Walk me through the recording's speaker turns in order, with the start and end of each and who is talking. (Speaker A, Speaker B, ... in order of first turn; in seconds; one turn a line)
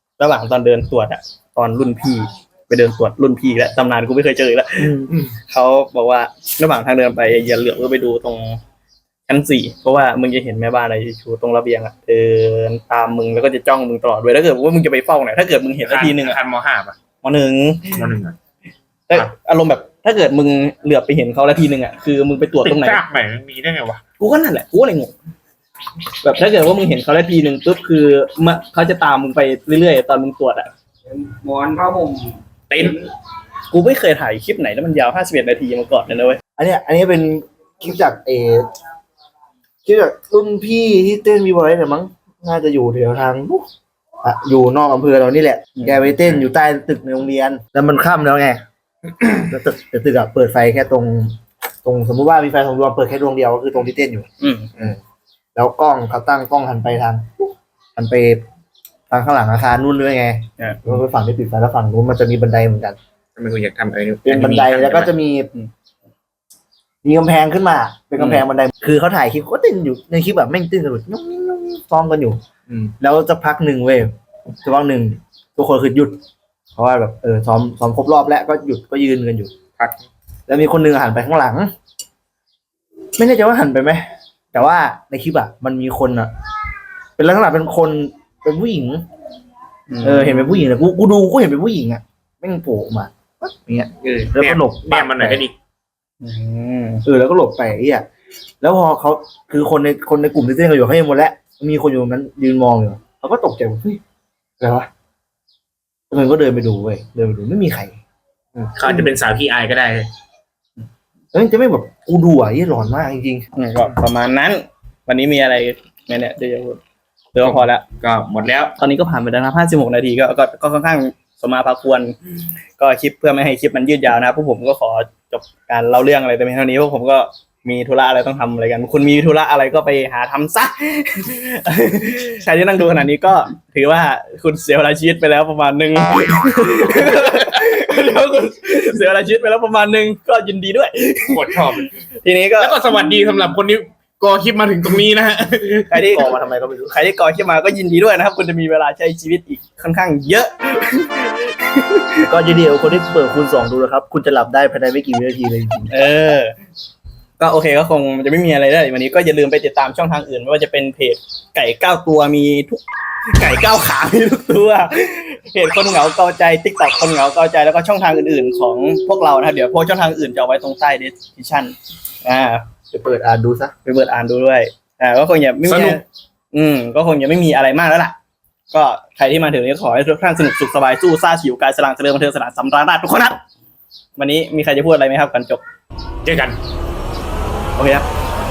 Speaker A: 0.2-8.6
Speaker B: 4.8-5.1
Speaker A: 9.3-16.4
Speaker C: 15.8-17.0
Speaker A: 17.2-18.0
Speaker C: 17.9-18.4
Speaker A: 19.1-23.0
Speaker C: 22.6-24.0
Speaker A: 24.2-25.1
Speaker A: 26.2-30.7
Speaker D: 31.1-33.0
Speaker C: 32.7-33.0
Speaker A: 33.7-36.4
Speaker B: 36.6-38.7
Speaker B: 39.9-43.7
Speaker B: 44.2-48.6
Speaker A: 45.8-46.0
Speaker B: 49.2-55.0
Speaker A: 54.4-54.7
Speaker B: 55.5-58.4
Speaker B: 59.1-63.0
Speaker C: 63.4-65.1
Speaker B: 64.2-65.5
Speaker B: 67.0-72.4
Speaker C: 72.7-72.9
Speaker B: 73.0-74.1
Speaker B: 74.6-76.2
Speaker B: 76.8-79.5
Speaker B: 80.5-81.7
Speaker B: 83.2-86.3
Speaker B: 87.2-89.0
Speaker A: 89.9-90.6
Speaker B: 90.0-95.4
Speaker C: 94.0-95.5
Speaker A: 96.2-97.0
Speaker B: 97.0-98.1
Speaker B: 98.6-104.0
Speaker B: 104.6-104.9
Speaker B: 106.1-108.0
Speaker C: 108.6-110.1
Speaker B: 111.3-113.5
Speaker A: 113.6-116.8
Speaker A: 117.3-117.8
Speaker C: 117.4-118.8
Speaker A: 118.8-122.2
Speaker A: 122.8-142.8
Speaker C: 141.3-141.9
Speaker C: 142.6-146.1
Speaker A: 145.9-146.3
Speaker B: 146.1-147.0
Speaker A: 146.9-152.3
Speaker B: 152.2-155.9
Speaker A: 155.9-156.5
Speaker A: 157.4-162.8
Speaker A: 163.3-172.7
Speaker B: 172.9-173.7
Speaker A: 173.8-178.2
Speaker C: 175.7-176.0
Speaker A: 178.7-183.4
Speaker A: 184.2-185.6
Speaker C: 186.2-186.6
Speaker A: 187.8-188.1